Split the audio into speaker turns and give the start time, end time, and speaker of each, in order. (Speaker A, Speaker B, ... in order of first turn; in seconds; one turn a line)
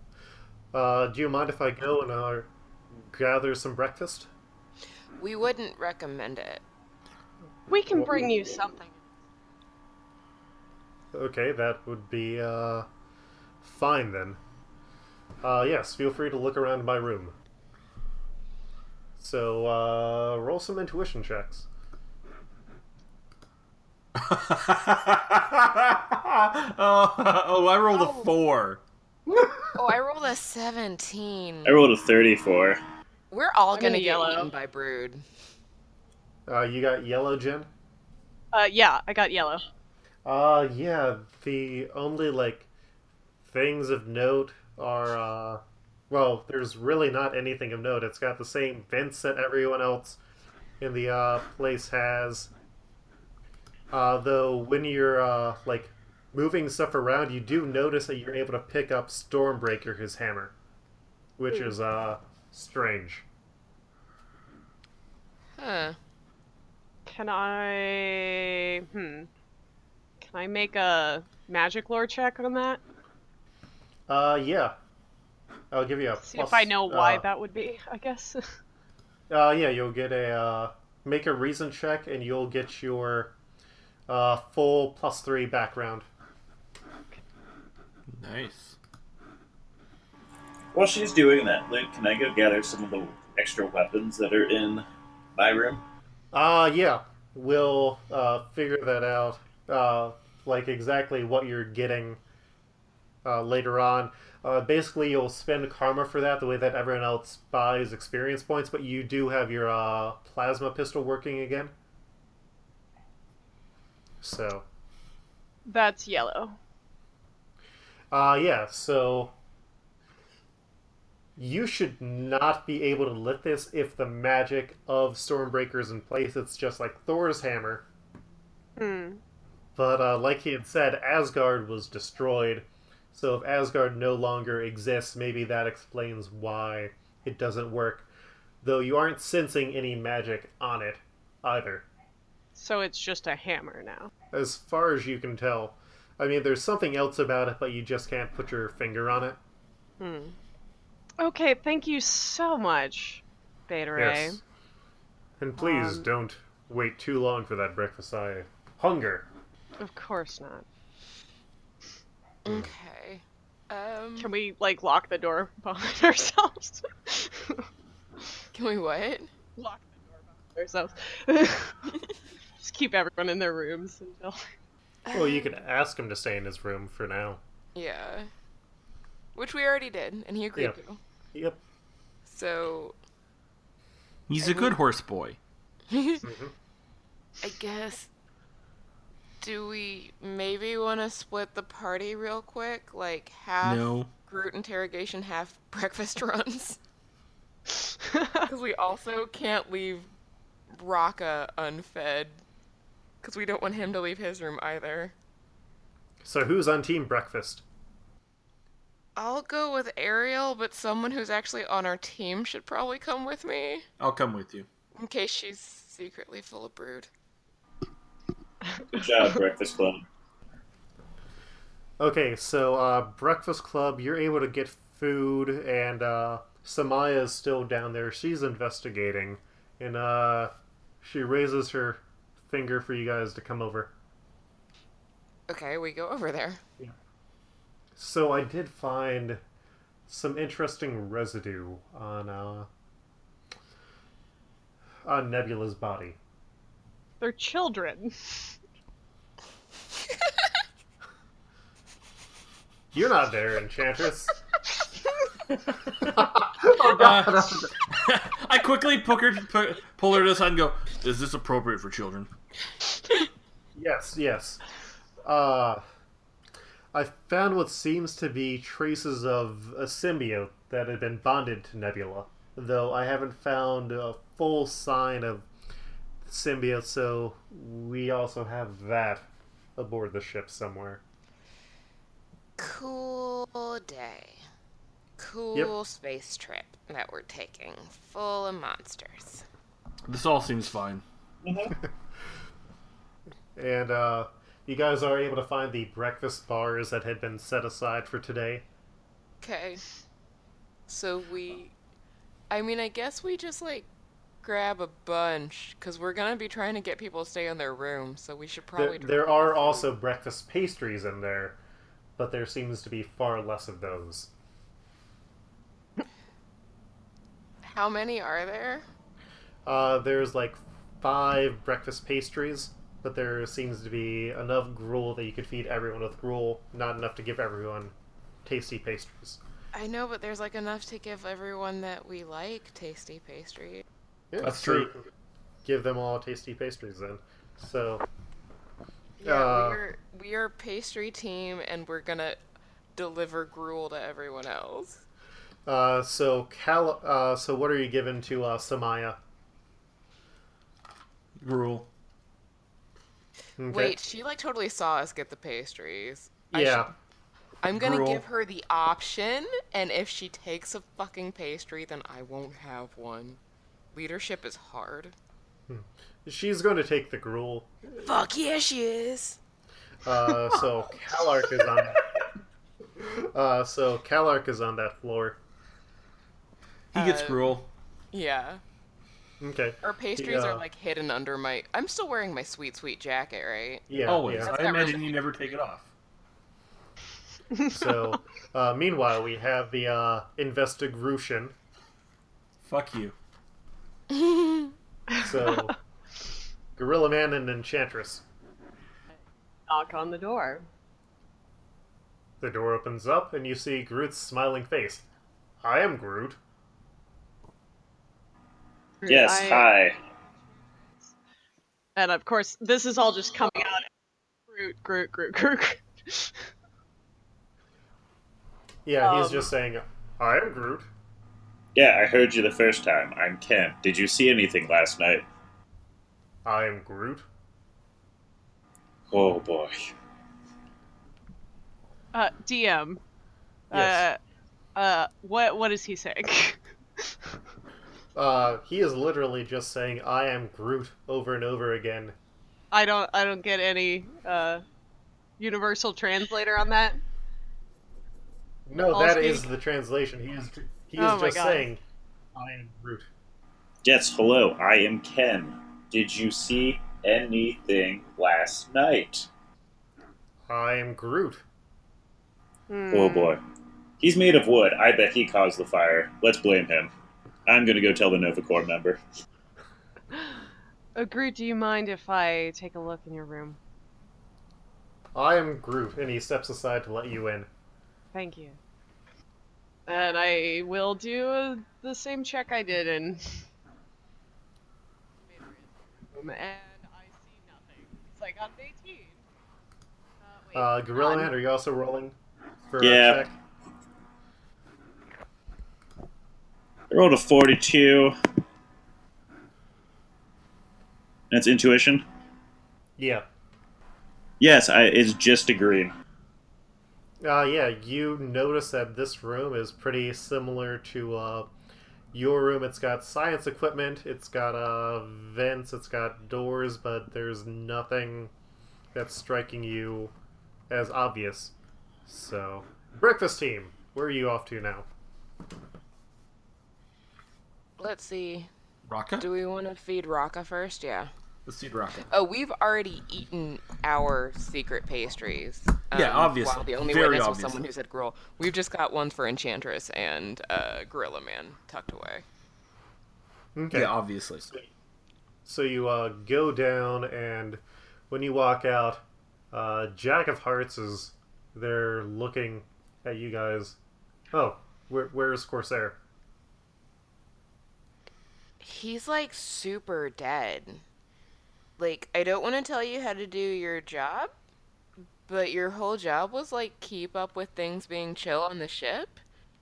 Speaker A: 0.7-2.5
Speaker A: 3.0-4.3
Speaker B: 5.2-6.6
Speaker C: 7.7-9.0
Speaker A: 7.9-8.3
Speaker A: 11.1-12.9
Speaker A: 13.6-14.4
Speaker A: 15.4-17.4
Speaker A: 19.2-21.6
Speaker D: 24.2-28.8
Speaker B: 27.9-28.3
Speaker B: 29.7-31.8
Speaker E: 31.6-32.8
Speaker B: 33.3-35.2
Speaker C: 33.7-34.5
Speaker A: 36.5-37.7
Speaker C: 38.5-39.6
Speaker A: 40.2-42.7
Speaker A: 43.4-50.2
Speaker A: 50.8-52.5
Speaker A: 53.9-60.5
Speaker A: 61.4-63.2
Speaker B: 65.6-66.0
Speaker C: 67.0-69.3
Speaker C: 70.2-72.8
Speaker A: 74.1-74.8
Speaker A: 75.7-77.2
Speaker C: 76.2-78.5
Speaker A: 79.3-83.3
Speaker A: 84.1-86.1
Speaker D: 88.2-88.8
Speaker E: 90.7-95.8
Speaker A: 96.3-102.2
Speaker A: 103.2-111.7
Speaker A: 114.2-114.6
Speaker C: 115.7-116.6
Speaker A: 118.1-119.3
Speaker A: 121.4-127.8
Speaker C: 128.8-129.2
Speaker A: 129.8-138.1
Speaker A: 138.6-141.9
Speaker C: 142.5-144.1
Speaker A: 144.3-149.4
Speaker C: 150.0-150.3
Speaker C: 151.2-154.4
Speaker A: 153.9-154.4
Speaker A: 155.4-159.3
Speaker C: 155.6-156.1
Speaker C: 159.8-160.7
Speaker B: 162.4-164.3
Speaker A: 162.4-162.7
Speaker C: 164.2-167.7
Speaker B: 168.5-169.3
Speaker C: 169.6-171.9
Speaker C: 172.6-174.4
Speaker B: 175.0-175.5
Speaker A: 175.1-177.4
Speaker B: 177.7-178.3
Speaker B: 179.3-181.0
Speaker A: 181.3-181.6
Speaker B: 182.2-182.9
Speaker D: 184.3-185.4
Speaker B: 184.4-184.8
Speaker B: 185.9-186.2
Speaker A: 186.2-186.5
Speaker B: 187.4-188.1
Speaker B: 189.4-196.8
Speaker D: 193.6-194.1
Speaker C: 198.1-198.4
Speaker B: 198.4-200.1
Speaker B: 200.7-202.4
Speaker B: 203.2-205.1
Speaker A: 206.2-207.6
Speaker B: 209.2-213.8
Speaker D: 214.0-214.7
Speaker B: 214.9-217.1
Speaker E: 218.9-220.0
Speaker A: 222.0-233.9
Speaker B: 235.5-236.6
Speaker A: 238.0-239.4
Speaker A: 240.1-242.7
Speaker A: 245.1-246.2
Speaker C: 247.2-248.5
Speaker A: 252.9-254.3
Speaker A: 256.0-257.7
Speaker D: 256.7-262.3
Speaker A: 263.8-264.6
Speaker A: 265.2-265.8
Speaker A: 266.9-275.5
Speaker A: 276.2-279.2
Speaker A: 279.8-281.0
Speaker B: 282.6-284.4
Speaker B: 285.2-289.4
Speaker D: 290.1-291.0
Speaker E: 291.4-291.7
Speaker A: 293.6-298.6
Speaker B: 299.4-299.8
Speaker B: 300.9-301.7
Speaker B: 302.5-303.9
Speaker B: 304.4-309.9
Speaker A: 308.8-311.6
Speaker A: 312.2-314.3
Speaker B: 317.6-318.8
Speaker A: 319.6-327.9
Speaker A: 328.4-329.4
Speaker B: 329.7-333.8
Speaker A: 334.3-335.0
Speaker D: 334.4-334.9
Speaker A: 335.6-338.0
Speaker B: 339.2-342.4
Speaker A: 339.2-339.8
Speaker B: 342.9-345.0
Speaker A: 345.6-349.2
Speaker D: 351.4-351.9
Speaker A: 353.6-353.9
Speaker B: 353.7-356.9
Speaker A: 356.5-356.9
Speaker B: 357.6-363.4
Speaker D: 357.7-358.2
Speaker B: 363.9-365.1
Speaker A: 365.7-367.7
Speaker B: 367.9-369.4
Speaker A: 370.0-372.1
Speaker A: 373.0-375.4
Speaker D: 376.9-377.7
Speaker B: 376.9-377.6
Speaker B: 378.1-378.6
Speaker A: 379.4-380.6
Speaker B: 379.8-385.2
Speaker A: 383.9-384.5
Speaker D: 384.1-385.9
Speaker C: 387.5-387.9
Speaker A: 387.7-391.5
Speaker D: 392.6-393.1
Speaker B: 394.1-394.7
Speaker A: 395.2-395.7
Speaker A: 396.8-398.2
Speaker C: 399.7-400.6
Speaker A: 402.4-405.0
Speaker A: 405.6-406.4
Speaker C: 409.0-409.7
Speaker E: 409.1-409.9
Speaker C: 411.9-413.9
Speaker C: 414.5-416.4
Speaker A: 418.9-420.9
Speaker C: 419.0-419.5
Speaker E: 421.7-425.2
Speaker A: 426.4-427.2
Speaker E: 429.1-429.9
Speaker C: 432.1-433.0
Speaker C: 433.7-434.2
Speaker A: 433.7-434.1
Speaker C: 434.7-437.3
Speaker A: 438.1-442.1
Speaker C: 442.7-444.6
Speaker C: 445.4-447.0
Speaker A: 448.7-451.8
Speaker C: 448.9-449.5
Speaker C: 451.0-451.7
Speaker A: 452.3-453.1
Speaker E: 453.8-459.3
Speaker A: 460.5-461.4
Speaker C: 462.7-463.4
Speaker E: 462.9-463.4
Speaker E: 464.0-466.9
Speaker E: 467.5-469.0
Speaker C: 470.9-473.6
Speaker A: 475.1-477.5
Speaker C: 478.1-478.6
Speaker C: 479.9-483.4
Speaker C: 485.3-489.2
Speaker C: 490.2-491.3
Speaker A: 490.5-492.1
Speaker A: 492.7-493.3
Speaker E: 492.8-493.3
Speaker E: 496.9-498.1
Speaker E: 501.3-502.0
Speaker A: 503.0-503.2
Speaker E: 504.4-505.9
Speaker A: 507.2-511.5
Speaker A: 512.1-518.3
Speaker A: 518.9-520.1
Speaker A: 520.7-521.5
Speaker A: 522.1-524.9
Speaker B: 527.8-528.5
Speaker D: 528.9-529.3
Speaker B: 529.2-531.1
Speaker D: 531.5-532.1
Speaker B: 532.1-542.2
Speaker D: 535.9-537.6
Speaker A: 543.5-544.7
Speaker D: 543.7-544.5
Speaker A: 545.4-553.8
Speaker A: 554.3-556.0
Speaker B: 558.6-560.8
Speaker B: 561.8-564.3
Speaker B: 565.3-569.2